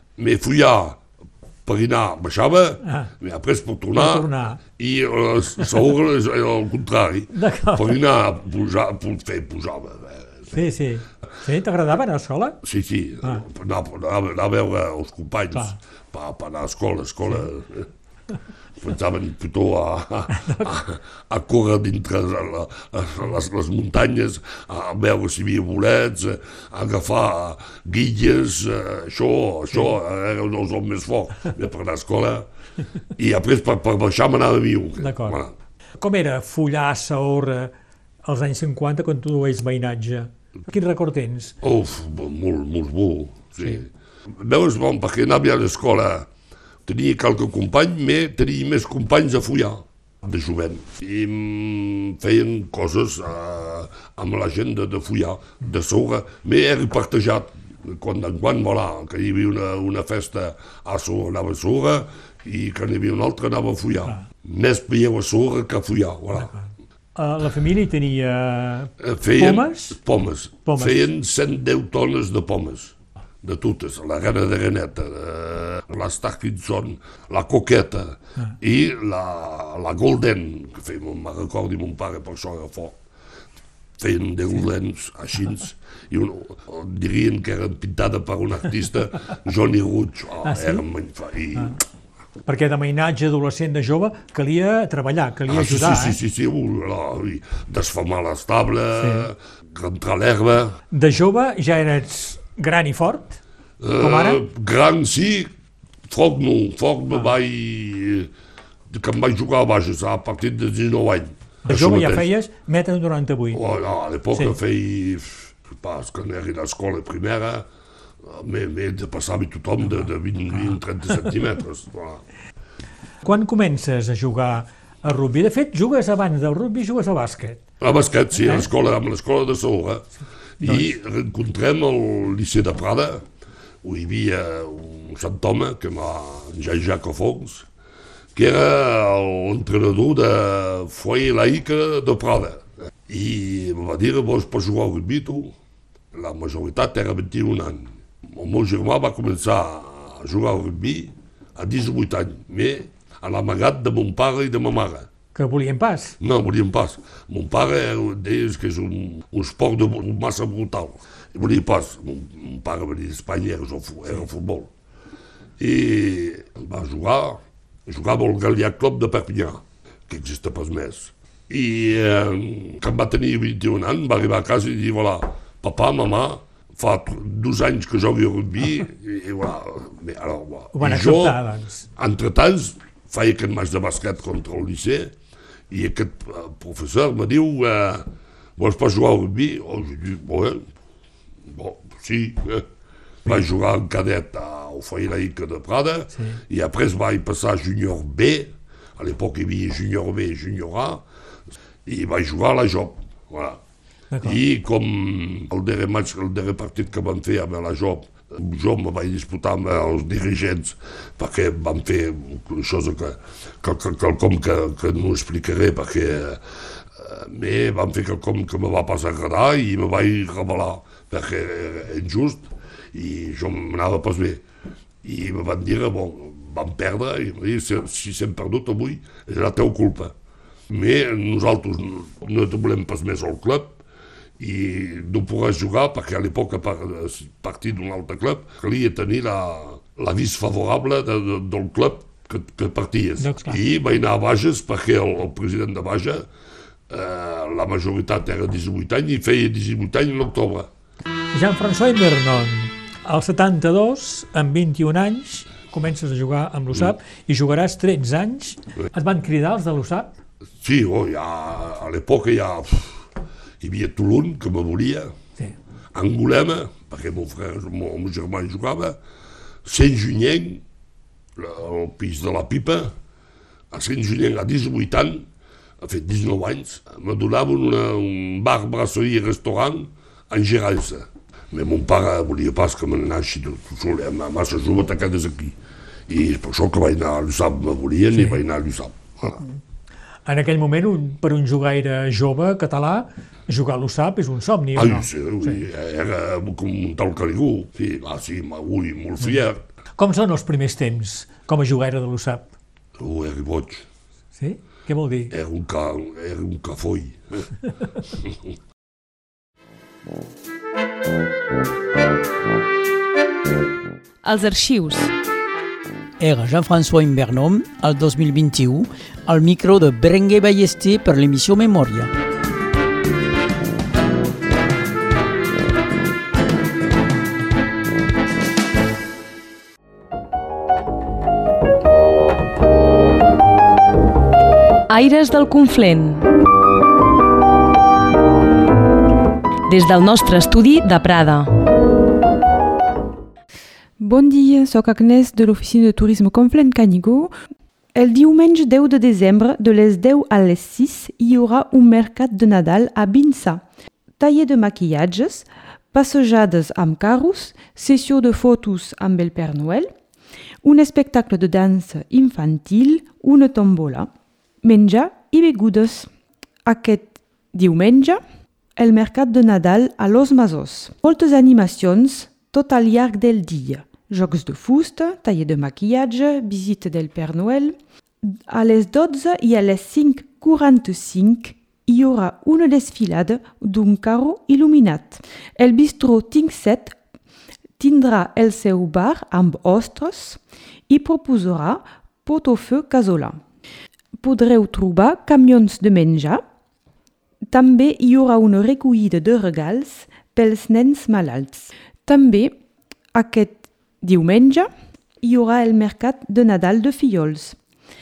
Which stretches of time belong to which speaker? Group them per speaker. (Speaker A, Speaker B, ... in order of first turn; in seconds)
Speaker A: 0.2-1.0, 1.7-10.6, 12.6-17.9, 18.8-32.5, 33.2-35.5, 41.6-43.9, 44.4-46.3, 46.9-66.5, 69.0-83.0, 84.0-91.8, 95.5-100.8, 103.8-105.5, 106.1-108.3, 108.9-112.2, 113.5-117.7, 118.3-122.2, 127.8-130.1, 130.6-133.2, 133.8-137.7, 138.3-145.5, 146.1-155.1, 156.2-164.7, 165.6-181.4, 182.0-185.1, 185.7-190.6, 191.5-192.7, 193.3-201.0, 201.9-203.6, 204.2-216.4, 217.0-224.4, 225.0-230.1, 230.7-233.8, 234.4-246.3, 246.9-250.7, 260.6-263.0, 263.6-265.1, 265.9-269.0, 269.6-270.6, 271.4-272.9, 273.7-275.2, 275.8-285.6, 286.1-289.4, 294.8-299.6, 303.0-303.9, 305.3-307.4
Speaker B: 2.8-3.1, 3.9-4.6, 7.3-8.0, 10.5-12.6, 15.5-15.8, 20.3-20.7, 35.0-35.4, 36.0-37.7, 38.2-41.5, 66.3-70.0, 70.6-71.1, 90.4-90.9, 92.5-96.2, 99.0-99.3, 100.9-103.4, 104.0-104.4, 111.7-113.6, 114.3-114.6, 119.8-121.3, 123.2-127.6, 128.3-128.7, 130.6-130.9, 155.3-156.2, 180.7-181.9, 204.1-204.4, 243.2-243.6, 251.3-260.1, 288.1-288.4, 289.3-289.5, 290.3-295.6, 300.0-302.5, 304.4-305.3
Speaker C: 314.2-315.1, 334.9-336.2, 339.7-341.5
Speaker D: 316.2-322.1
Speaker E: 344.0-347.3, 347.9-353.6, 354.2-359.9, 360.6-364.1, 364.6-366.1, 366.6-368.2, 368.8-387.0, 387.8-393.4, 394.1-396.4, 397.5-402.6, 403.1-404.7, 405.2-407.6